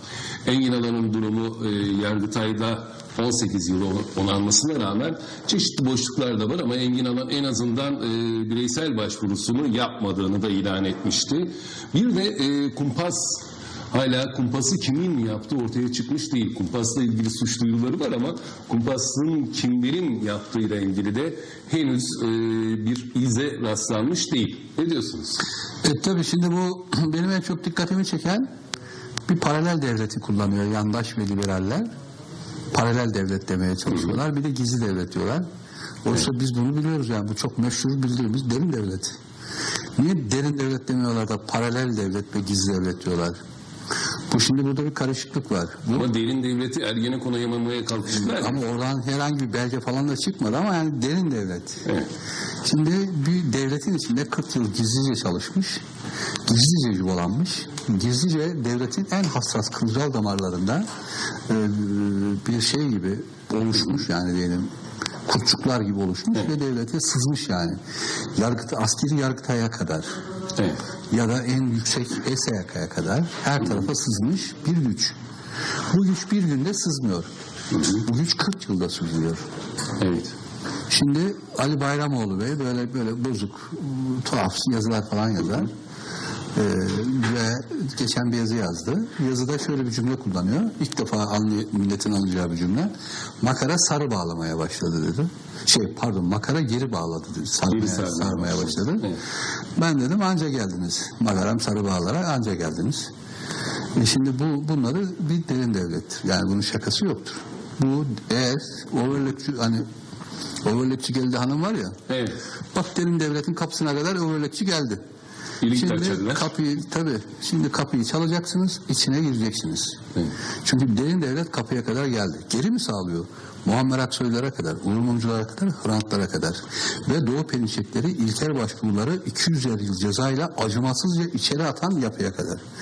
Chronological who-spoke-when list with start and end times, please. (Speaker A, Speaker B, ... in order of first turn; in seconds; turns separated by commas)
Speaker A: 0.4-25.4, Speaker B: 25.8-28.4, Speaker B: 29.3-31.9, Speaker B: 32.7-35.5, Speaker B: 36.0-39.1, Speaker B: 40.0-43.4, Speaker B: 44.3-46.1, Speaker A: 45.9-48.6, Speaker B: 48.1-51.8, Speaker B: 52.6-55.8, Speaker B: 56.5-60.8, Speaker B: 61.5-64.7, Speaker B: 65.3-67.8, Speaker B: 68.4-70.1, Speaker B: 71.1-75.1, Speaker B: 75.9-77.3, Speaker A: 77.7-78.0, Speaker B: 77.8-79.4, Speaker A: 80.0-80.3, Speaker B: 80.9-85.7, Speaker B: 86.5-92.9, Speaker B: 93.4-99.1, Speaker A: 97.7-99.2, Speaker B: 99.8-103.1, Speaker B: 104.0-109.8, Speaker B: 110.6-111.9, Speaker A: 112.1-112.4, Speaker B: 112.7-115.0, Speaker A: 115.6-116.5, Speaker B: 115.7-120.0, Speaker B: 120.6-132.6